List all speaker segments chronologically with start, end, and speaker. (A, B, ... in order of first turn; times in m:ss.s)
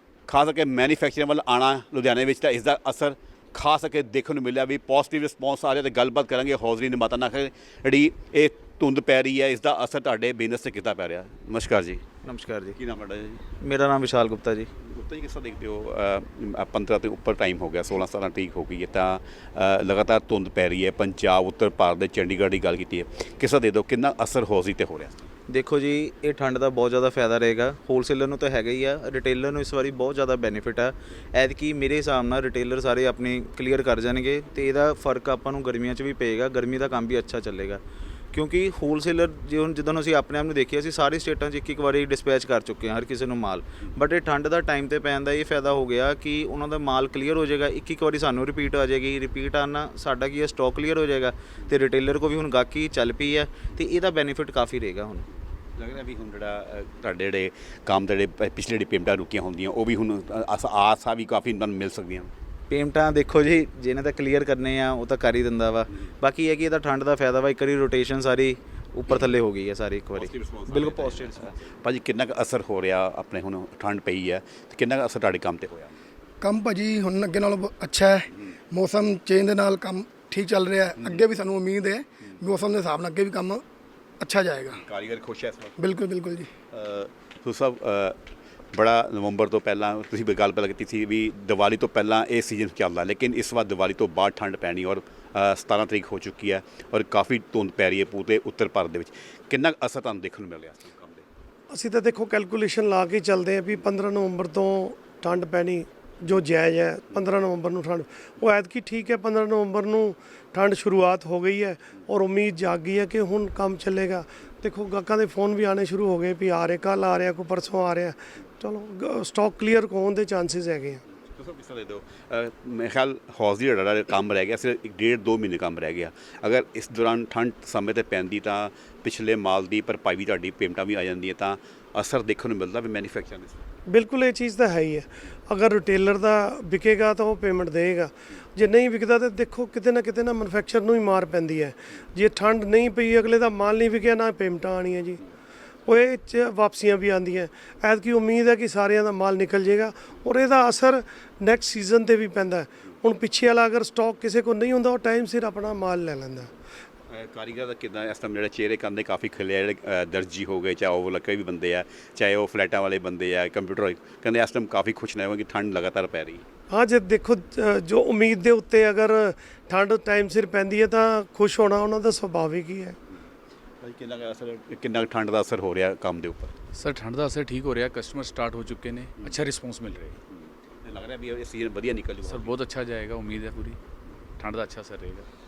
0:00.3-0:12.1 A
0:12.2-0:12.8 B
0:12.8-0:13.5 A
0:13.6-0:14.7 B
0:14.8-0:25.3 A
0:25.5-0:37.8 B
0:38.3-0:55.3 B
0:55.8-1:02.3 A
1:02.7-1:11.5 B
1:10.2-1:16.0 A
1:16.4-1:23.6 C
1:24.2-1:24.8 C
1:24.8-1:25.8 A
1:25.8-1:26.5 C
1:26.7-1:28.2 A
1:28.7-1:41.2 A
1:41.7-2:01.0 D
2:01.3-2:13.6 A
2:13.9-2:25.2 D
2:25.9-2:36.5 D
2:37.1-2:46.4 A
2:46.7-2:53.0 D
2:53.8-2:56.6 A
2:56.8-3:00.2 E
3:00.3-3:02.6 A
3:02.2-3:03.8 E
3:04.4-3:05.3 E